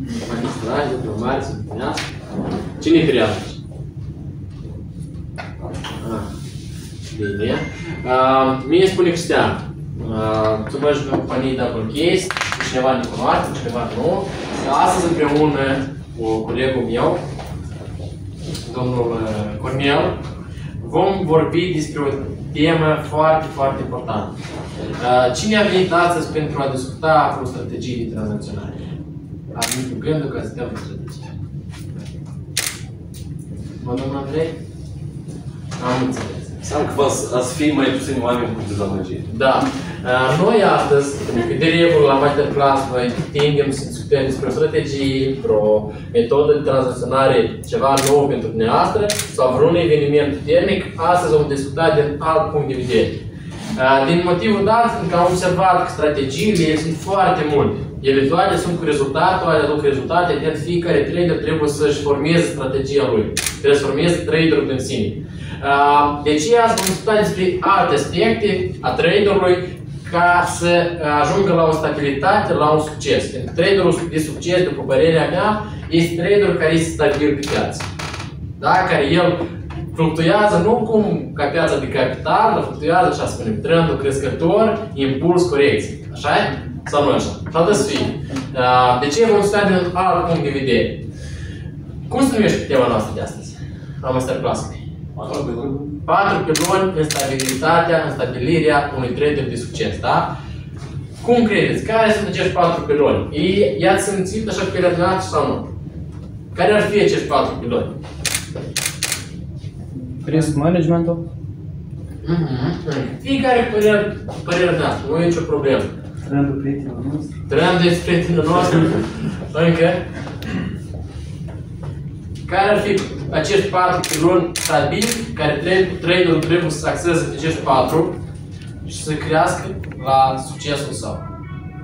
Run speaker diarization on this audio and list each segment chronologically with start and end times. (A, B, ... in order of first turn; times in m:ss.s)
0:00.2-0:02.0 A
0:02.8-0:03.6 A
0:06.0-0:06.3 A
0:07.1-0:17.2 A
0:18.6-0:20.2 A
0:20.8-0:24.3 A
0:25.0-0:28.8 A
0:29.5-0:31.3 A
0:33.8-0:34.5 A
0:35.8-0:37.0 A
0:36.8-0:39.3 B
0:39.3-0:53.2 A
0:53.7-1:17.8 A
1:18.6-1:19.4 A
1:19.9-1:31.0 A
1:32.1-1:34.8 A
1:35.2-1:35.8 C
1:36.0-1:40.3 A
1:41.2-1:45.7 A
1:46.5-1:47.9 A
1:50.2-1:51.2 C
1:52.2-1:55.9 A
1:56.3-1:57.3 C
1:57.5-2:00.0 A
2:02.4-2:08.1 A
2:08.8-2:11.2 A